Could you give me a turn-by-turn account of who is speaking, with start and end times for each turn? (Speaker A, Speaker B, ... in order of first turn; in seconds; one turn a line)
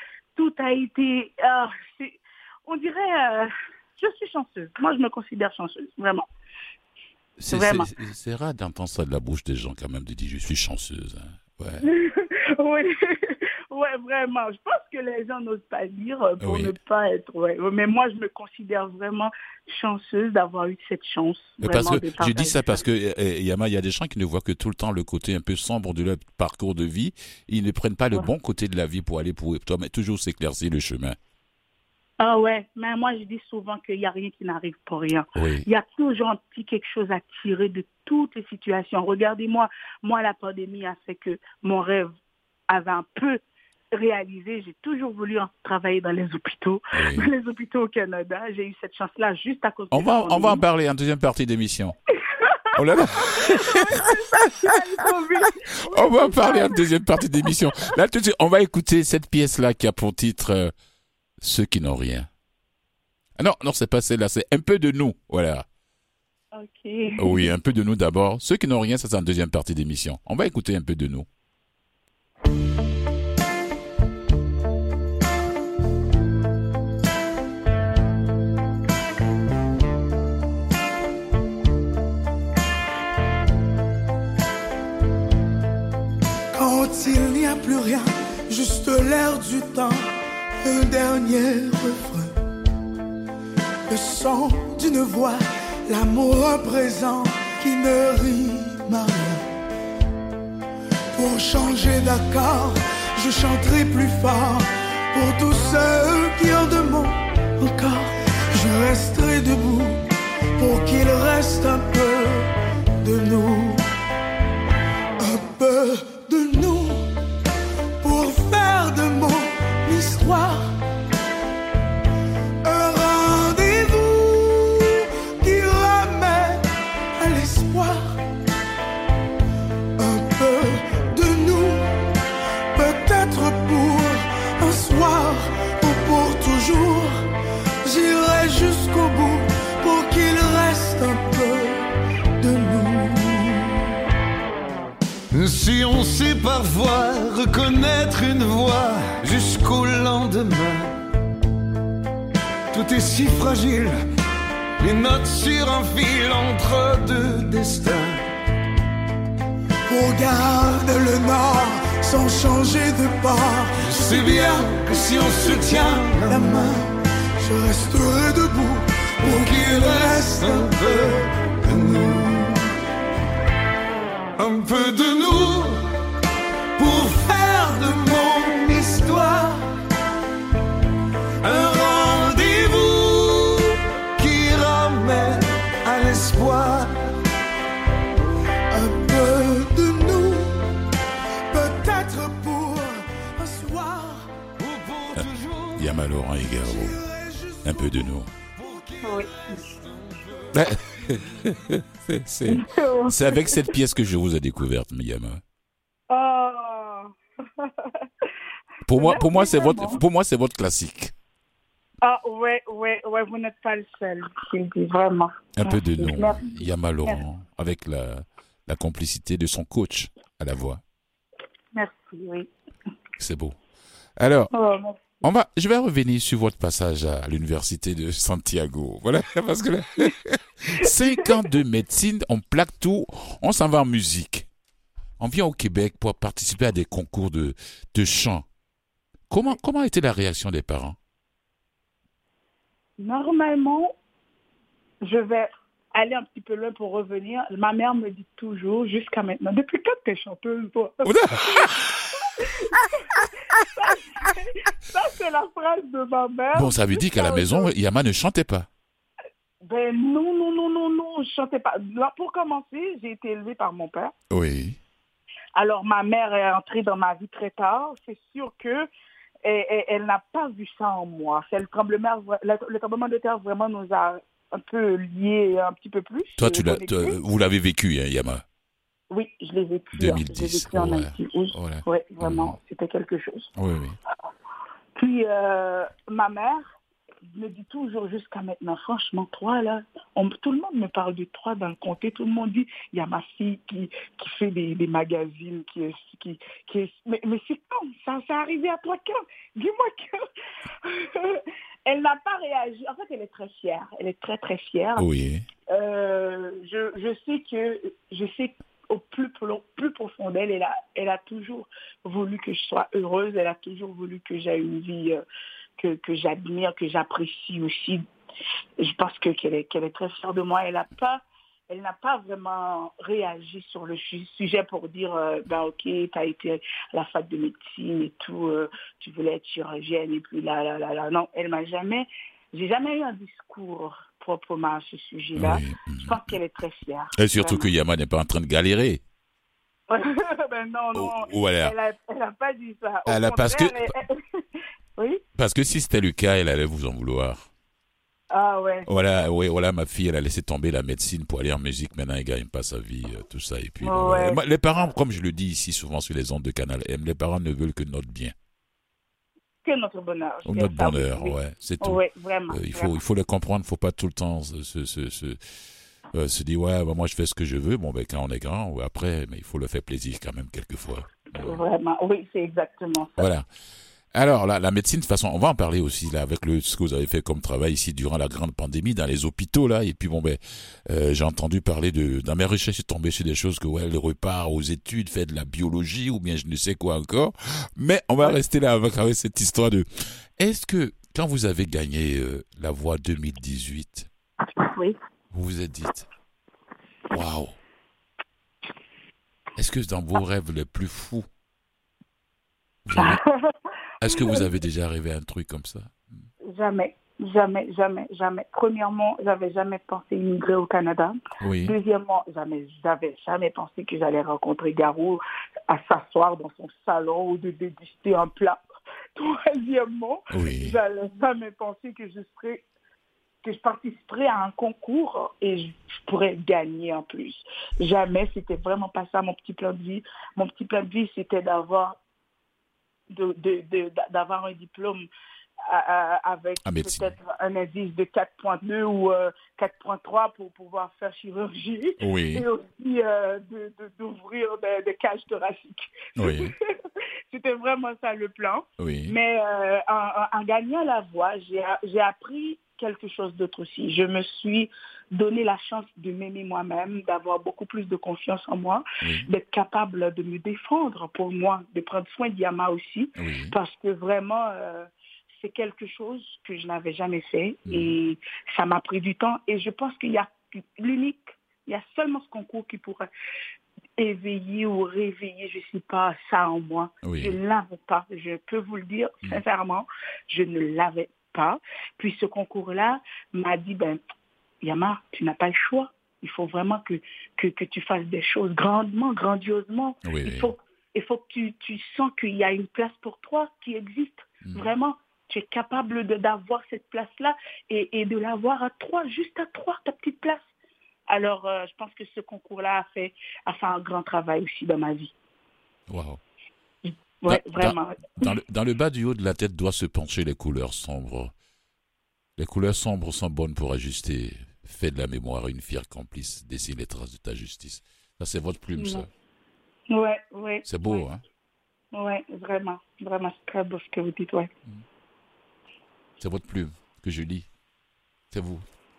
Speaker A: 0.4-6.3
Speaker B: 7.4-11.8
Speaker A: 7.5-7.9
Speaker A: 11.8-22.8
Speaker B: 16.4-16.7
Speaker B: 21.6-31.2
Speaker A: 32.2-42.1
Speaker B: 35.4-35.7
Speaker A: 42.7-43.4
Speaker A: 43.9-50.6
Speaker B: 46.9-47.3
Speaker B: 49.9-52.0
Speaker A: 52.2-56.8
Speaker B: 52.8-54.1
Speaker B: 55.9-60.7
Speaker A: 57.4-57.9
Speaker B: 61.4-62.3
Speaker B: 63.4-65.7
Speaker A: 66.5-67.5
Speaker B: 67.2-71.3
Speaker C: 86.5-92.4
Speaker C: 93.9-99.5
Speaker C: 101.2-113.8
Speaker C: 115.2-117.2
Speaker C: 118.0-120.8
Speaker C: 122.6-126.6
Speaker C: 127.2-128.2
Speaker C: 130.0-131.9
Speaker C: 132.8-137.2
Speaker C: 137.8-141.8
Speaker C: 142.4-143.8
Speaker D: 145.3-150.9
Speaker D: 152.7-154.0
Speaker D: 154.8-158.3
Speaker C: 159.9-172.5
Speaker D: 163.8-166.6
Speaker D: 169.2-172.5
Speaker D: 174.4-175.9
Speaker D: 176.8-179.7
Speaker D: 181.4-187.1
Speaker C: 188.7-190.8
Speaker C: 191.5-194.4
Speaker D: 194.6-195.9
Speaker B: 195.2-197.0
Speaker C: 196.6-198.2
Speaker B: 197.6-198.3
Speaker D: 198.6-201.1
Speaker A: 199.0-199.6
Speaker B: 200.5-205.4
Speaker A: 202.5-203.7
Speaker A: 206.1-208.1
Speaker B: 208.8-211.1
Speaker A: 208.9-210.0
Speaker A: 212.0-217.2
Speaker B: 215.6-220.8
Speaker A: 221.8-222.5
Speaker B: 223.2-223.6
Speaker B: 224.2-224.5
Speaker A: 224.5-225.2
Speaker B: 225.2-234.5
Speaker B: 235.2-238.5
Speaker B: 239.3-241.0
Speaker A: 243.0-243.9
Speaker A: 245.0-251.7
Speaker B: 251.0-252.0
Speaker A: 252.3-257.7
Speaker B: 256.6-258.7
Speaker A: 259.6-264.1
Speaker B: 264.3-264.8
Speaker A: 265.6-268.9
Speaker A: 269.4-277.2
Speaker B: 276.4-278.4
Speaker A: 279.1-283.5
Speaker B: 279.9-282.6
Speaker B: 283.6-284.0
Speaker A: 285.0-286.7
Speaker A: 287.3-300.2
Speaker A: 300.8-305.1
Speaker B: 305.0-305.4
Speaker A: 305.7-315.2
Speaker A: 315.8-318.0
Speaker A: 318.8-337.7
Speaker B: 335.4-336.3
Speaker B: 337.2-339.0
Speaker A: 339.9-344.4
Speaker B: 340.9-341.8
Speaker B: 343.1-343.9
Speaker A: 345.0-345.2
Speaker B: 345.4-347.5
Speaker A: 348.3-348.9
Speaker B: 348.9-358.3
Speaker A: 353.8-354.9
Speaker A: 359.6-363.0
Speaker B: 360.5-365.4
Speaker B: 366.1-371.6
Speaker A: 371.3-373.3
Speaker B: 373.2-373.5
Speaker B: 374.1-394.1
Speaker A: 394.6-395.0
Speaker B: 395.3-396.1
Speaker B: 397.1-397.6
Speaker B: 399.6-401.3
Speaker B: 402.9-403.2
Speaker A: 403.0-403.5
Speaker B: 404.0-406.2
Speaker A: 404.1-404.4
Speaker A: 406.4-418.6
Speaker B: 411.4-411.8
Speaker A: 419.1-422.6
Speaker B: 420.3-420.8
Speaker A: 423.4-432.0
Speaker A: 433.1-435.1
Speaker A: 435.7-446.7
Speaker B: 436.6-437.1
Speaker B: 442.0-442.5
Speaker B: 446.2-446.5
Speaker A: 447.3-473.1
Speaker B: 448.8-449.1
Speaker B: 459.0-459.3
Speaker B: 463.2-463.5
Speaker B: 467.7-467.9
Speaker A: 474.0-484.0
Speaker B: 477.0-477.4
Speaker A: 484.6-500.5
Speaker B: 490.1-490.5
Speaker B: 494.4-494.7
Speaker A: 501.1-505.1
Speaker B: 505.9-506.2
Speaker A: 506.9-508.3
Speaker B: 507.3-511.3
Speaker B: 512.4-519.1
Speaker A: 518.8-519.0
Speaker A: 519.9-521.0
Speaker B: 520.6-521.2
Speaker A: 521.9-524.5
Speaker B: 526.2-527.5
Speaker B: 528.3-528.7